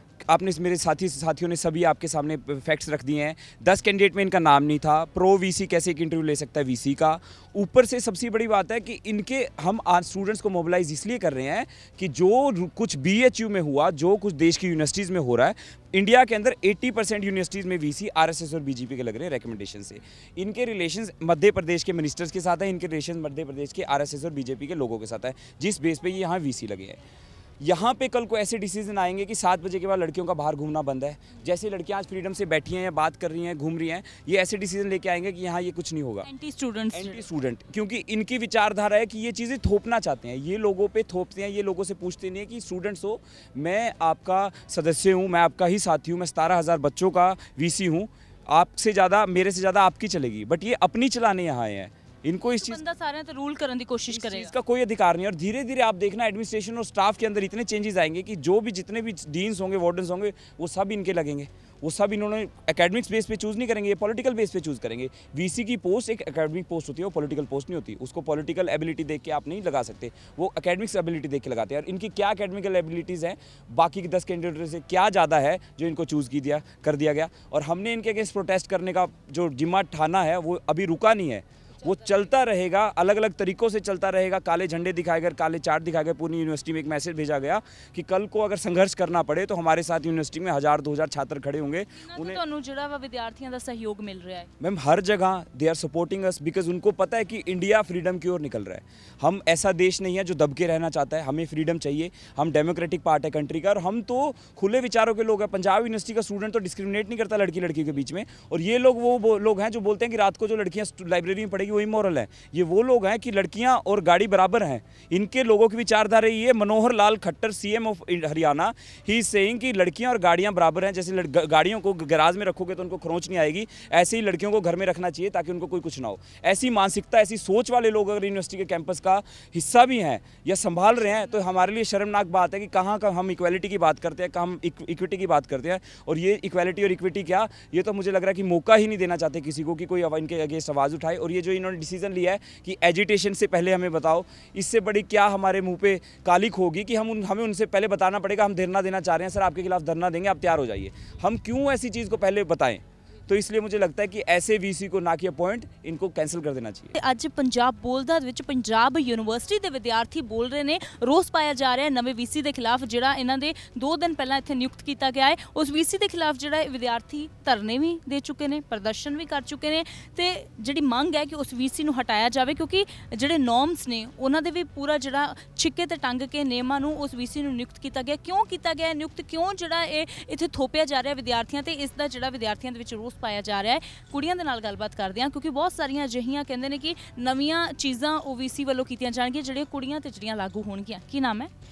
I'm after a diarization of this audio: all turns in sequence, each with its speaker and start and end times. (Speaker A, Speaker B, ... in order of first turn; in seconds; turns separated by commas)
Speaker A: 0.3-27.0, Speaker A: 27.6-36.3, Speaker B: 36.2-37.3, Speaker A: 36.9-52.8, Speaker B: 52.4-54.5, Speaker A: 54.1-92.4, Speaker B: 81.8-82.1, Speaker B: 92.0-94.5, Speaker A: 94.6-156.9, Speaker B: 156.9-191.5